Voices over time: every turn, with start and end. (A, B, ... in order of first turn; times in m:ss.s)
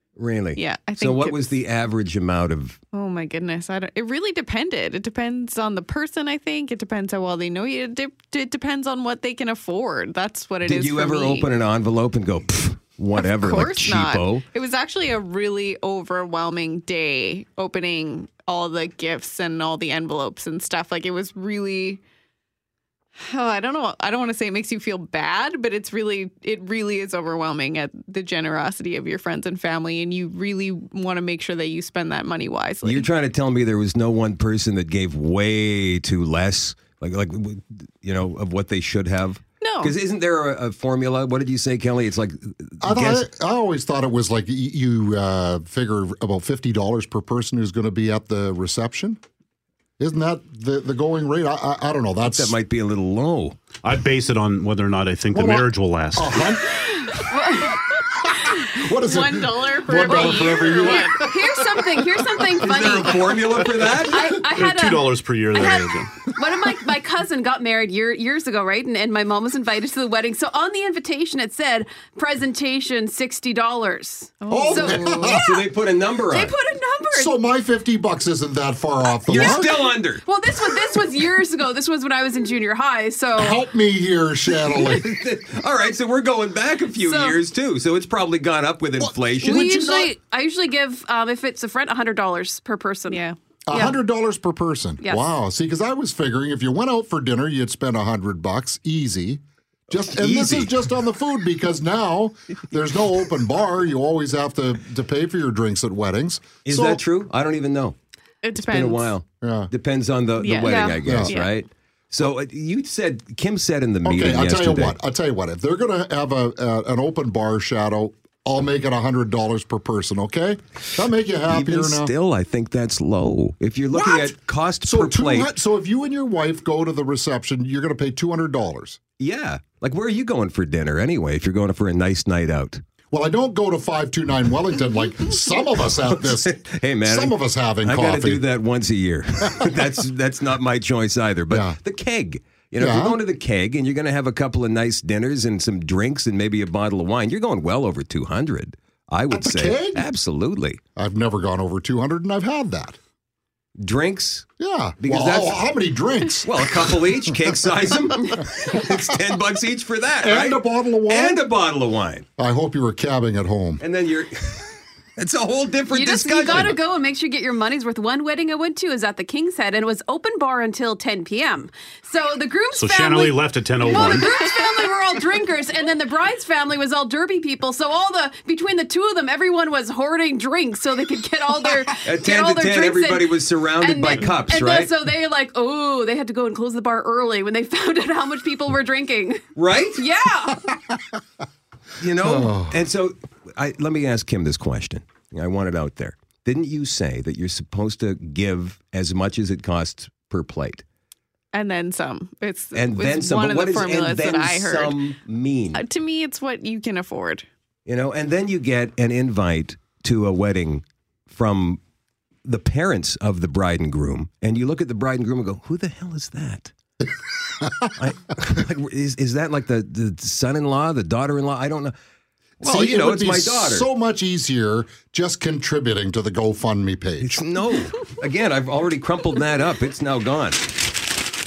0:00.2-0:02.8 A
0:00.6-0:01.5 B
0:02.9-0:11.5 B
0:10.6-0:14.5 A
0:13.2-0:22.0 B
0:23.2-0:33.1 B
0:32.8-0:43.2 A
0:39.6-0:39.9 B
0:42.8-0:49.2 C
0:50.0-0:52.6 C
0:52.2-0:53.6 A
0:53.8-0:56.4 D
0:55.3-0:56.8 C
0:56.7-0:57.8 E
0:58.3-1:02.6 C
0:59.0-1:01.2 B
1:01.2-1:15.6 E
1:02.6-1:04.3 A
1:04.5-1:06.3 D
1:14.4-1:15.4 B
1:14.5-1:15.5 C
1:15.1-1:16.5 A
1:16.3-1:17.4 E
1:17.1-1:19.9 C
1:19.3-1:20.2 A
1:20.2-1:23.6 E
1:23.4-1:25.1 C
1:24.7-1:29.7 A
1:27.0-1:27.4 E
1:29.0-1:30.1 C
1:29.4-1:34.0 E
1:33.1-1:33.4 B
1:33.7-1:47.0 C
1:40.1-1:40.8 A
1:46.6-1:48.0 A
1:48.4-1:49.2 B
1:48.5-1:55.0 A
1:49.4-1:49.7 C
1:50.4-1:51.5 B
1:50.7-1:51.0 E
1:51.0-1:51.3 C
1:54.0-2:02.1 C
2:01.5-2:05.5 A
2:03.9-2:09.0 C
2:09.2-2:12.8 A
2:13.1-2:18.4 C
2:16.1-2:30.8 A
2:21.5-2:21.8 C
2:22.8-2:23.2 C
2:29.3-2:30.0 C
2:31.0-2:33.0 C
2:33.8-2:34.5 A
2:34.6-2:37.7 C
2:35.0-2:35.7 A
2:36.4-2:42.3 A
2:40.2-2:41.4 C
2:42.4-2:43.8 C
2:43.8-2:46.7 A
2:45.9-3:09.4 E
2:46.5-2:46.7 C
2:52.8-2:54.3 D
3:02.0-3:04.9 A
3:09.6-3:10.0 A
3:09.9-3:10.8 E
3:12.0-3:20.8 A
3:12.2-3:12.8 C
3:21.5-3:25.0 B
3:22.7-3:25.8 A
3:25.7-3:27.4 B
3:27.9-3:31.8 A
3:32.4-3:36.7 A
3:37.6-3:37.9 C
3:38.0-3:42.0 A
3:42.6-3:43.9 A
3:42.6-3:47.4 C
3:47.2-3:50.8 A